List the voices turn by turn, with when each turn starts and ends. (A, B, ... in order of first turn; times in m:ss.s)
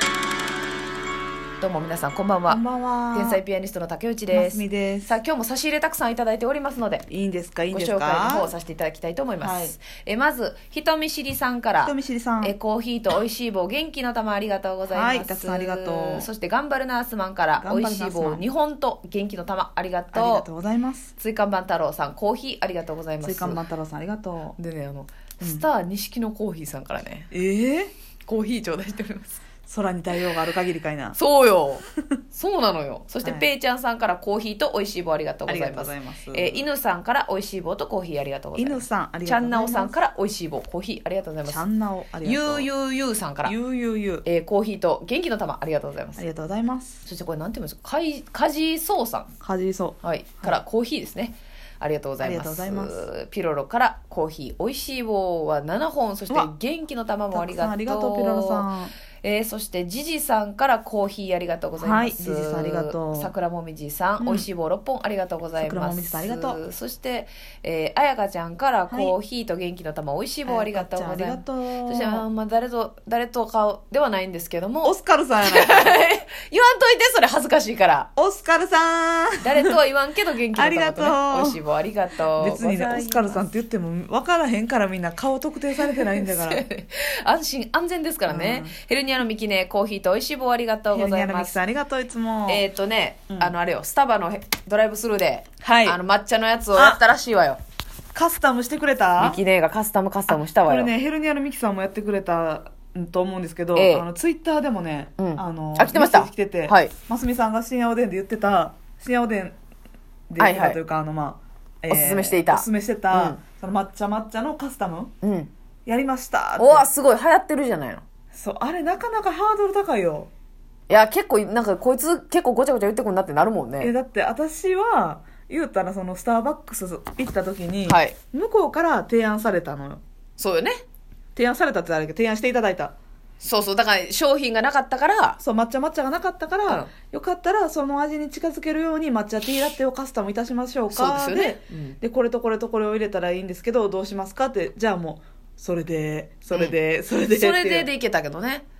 0:01.6-0:02.6 A
0:02.5-0:03.4 B
0:03.1-0:07.1 A
0:04.3-0:05.1 B
0:07.1-0:08.5 B
0:07.7-0:20.4 A
0:09.4-0:09.7 B
0:11.8-0:12.5 B
0:14.9-0:16.3 B
0:17.6-0:18.4 B
0:20.1-0:21.1 B
0:21.2-0:23.6 A
0:23.2-0:24.6 B
0:24.6-0:27.3 A
0:25.4-0:25.6 B
0:27.3-0:27.9 B
0:28.3-0:29.3 A
0:29.7-0:31.2 B
0:31.1-0:41.6 A
0:33.2-0:33.5 B
0:35.5-0:36.6 B
0:38.6-0:39.9 B
0:41.4-0:42.7 B
0:42.2-0:43.5 A
0:43.4-0:44.2 B
0:44.2-0:46.2 A
0:46.2-0:47.0 B
0:47.0-0:49.3 A
0:49.4-0:50.6 B
0:50.0-0:58.7 A
0:52.2-0:53.0 B
0:57.3-0:58.9 B
0:59.2-1:18.1 A
1:01.8-1:03.3 B
1:04.2-1:04.5 B
1:05.6-1:06.6 B
1:08.9-1:09.1 B
1:10.5-1:12.2 B
1:14.8-1:16.0 B
1:18.2-1:19.8 B
1:19.4-1:23.4 A
1:20.5-1:21.6 B
1:22.4-1:26.6 B
1:25.8-1:31.6 A
1:28.3-1:28.8 B
1:30.9-1:32.6 B
1:32.5-1:37.6 A
1:35.6-1:36.0 B
1:36.7-1:37.0 B
1:38.1-1:39.4 B
1:39.2-1:40.9 A
1:40.3-1:49.5 B
1:43.7-1:44.0 A
1:45.2-1:46.9 A
1:50.3-1:55.1 B
1:50.4-1:50.8 A
1:51.9-1:53.4 A
1:55.2-1:55.5 A
1:55.8-1:56.9 B
1:56.6-1:58.0 A
1:58.3-2:00.3 B
2:00.9-2:03.9 A
2:03.8-2:10.0 B
2:07.9-2:08.1 A
2:10.4-2:10.8 A
2:11.3-2:12.9 B
2:13.4-2:15.4 A
2:15.4-2:27.9 B
2:20.9-2:22.0 A
2:27.3-2:28.6 A